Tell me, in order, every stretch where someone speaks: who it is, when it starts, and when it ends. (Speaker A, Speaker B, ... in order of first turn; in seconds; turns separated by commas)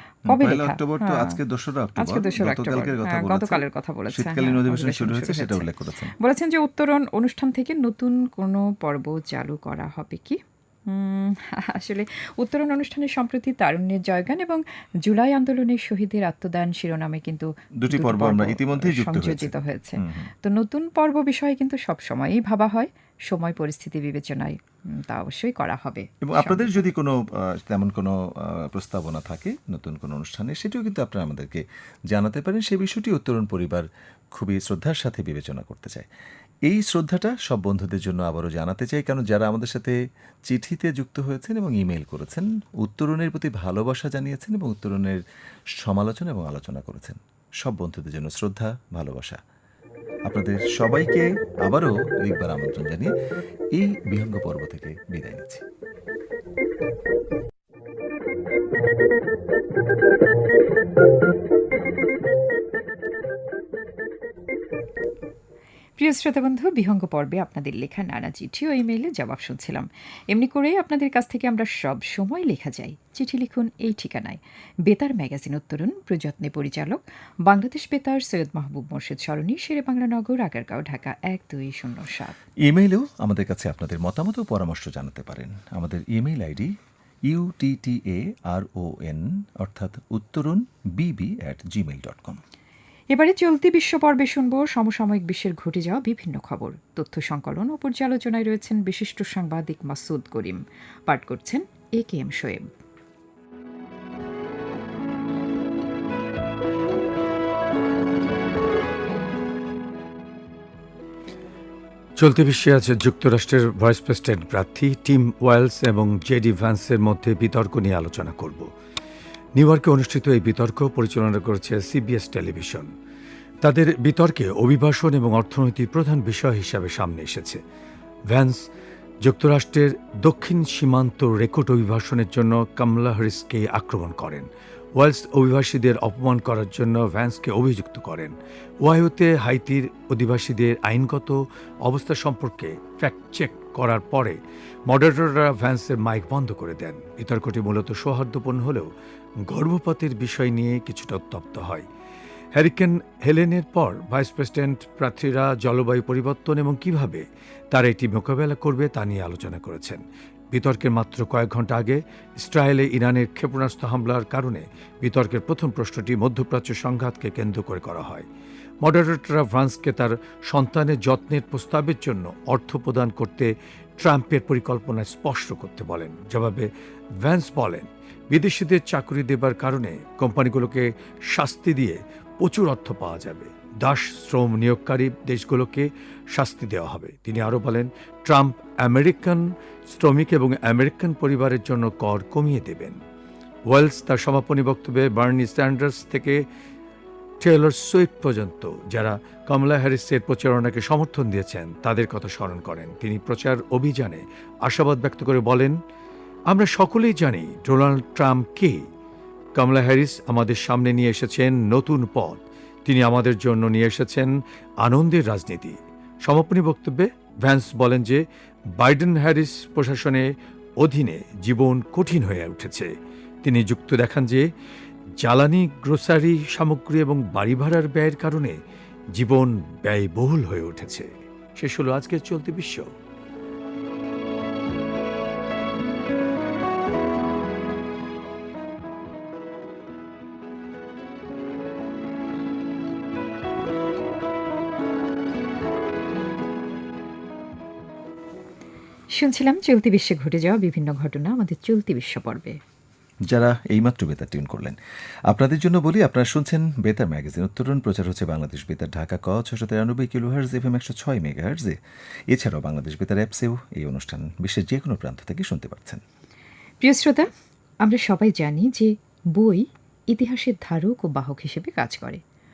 Speaker A: 0.3-1.4, Speaker B: 0.3-6.1, Speaker A: 2.0-5.7, Speaker A: 6.2-26.8, Speaker B: 17.8-20.3, Speaker B: 26.2-36.1, Speaker B: 36.7-45.2, Speaker B: 45.7-49.4, Speaker B: 50.3-53.1, Speaker B: 53.7-55.6, Speaker A: 66.0-82.4, Speaker B: 82.6-86.7, Speaker B: 87.3-92.4, Speaker A: 93.1-102.7, Speaker C: 112.2-118.7, Speaker C: 119.5-122.9, Speaker C: 123.6-127.6, Speaker C: 128.3-128.6, Speaker C: 129.2-148.9, Speaker C: 149.4-151.8, Speaker C: 152.5-168.3, Speaker C: 168.8-193.0, Speaker C: 193.7-196.4, Speaker C: 197.4-205.8, Speaker C: 206.5-208.9, Speaker C: 209.5-218.2, Speaker C: 218.8-220.3, Speaker C: 220.8-222.9, Speaker C: 223.4-224.5, Speaker C: 225.2-228.6, Speaker C: 229.1-232.9, Speaker A: 249.2-252.6, Speaker B: 253.3-254.8, Speaker B: 255.3-261.8, Speaker B: 262.3-266.0, Speaker A: 266.8-267.3, Speaker A: 267.8-272.2